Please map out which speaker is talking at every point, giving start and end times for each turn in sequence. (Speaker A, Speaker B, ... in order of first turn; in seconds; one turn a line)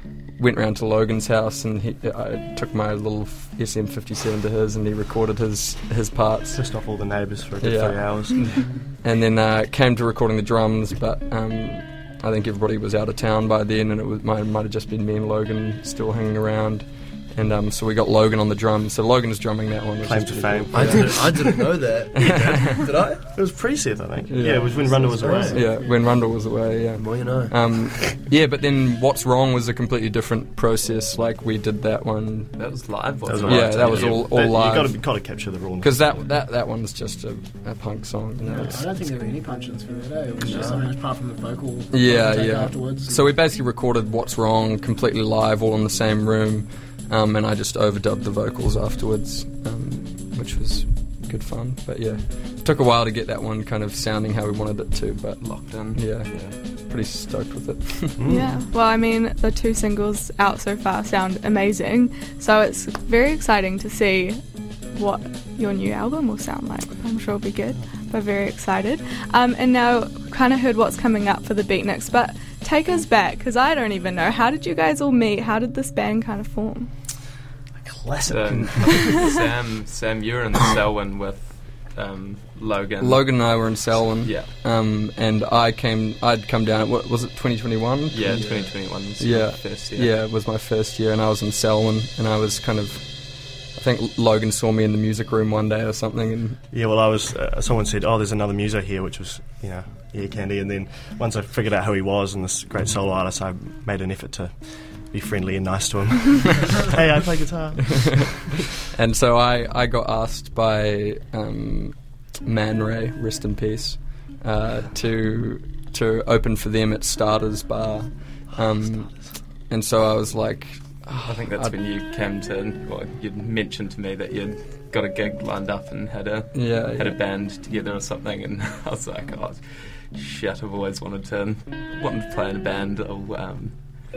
Speaker A: 0.4-6.6
Speaker B: 6.5-8.5
Speaker A: 7.6-8.2
Speaker A: 9.0-21.3
Speaker B: 20.0-21.6
Speaker C: 20.7-23.2
Speaker B: 22.1-25.6
Speaker A: 22.2-22.9
Speaker A: 24.3-32.6
Speaker C: 24.4-25.6
Speaker D: 24.8-26.0
Speaker C: 27.0-27.7
Speaker E: 32.5-34.2
Speaker B: 33.3-36.3
Speaker A: 33.4-35.0
Speaker A: 35.8-38.9
Speaker D: 38.4-43.4
Speaker B: 40.5-40.7
Speaker A: 41.9-58.3
Speaker E: 55.4-56.3
Speaker B: 58.2-58.5
Speaker F: 58.3-64.4
Speaker F: 64.9-76.9
Speaker D: 77.8-79.2
Speaker C: 78.0-78.7
Speaker E: 78.3-84.5
Speaker A: 83.0-88.4
Speaker E: 88.1-90.2
Speaker C: 88.2-88.7
Speaker A: 89.2-96.6
Speaker B: 96.7-104.5
Speaker B: 105.1-108.3
Speaker A: 108.9-121.7
Speaker E: 121.2-133.8
Speaker A: 126.5-127.2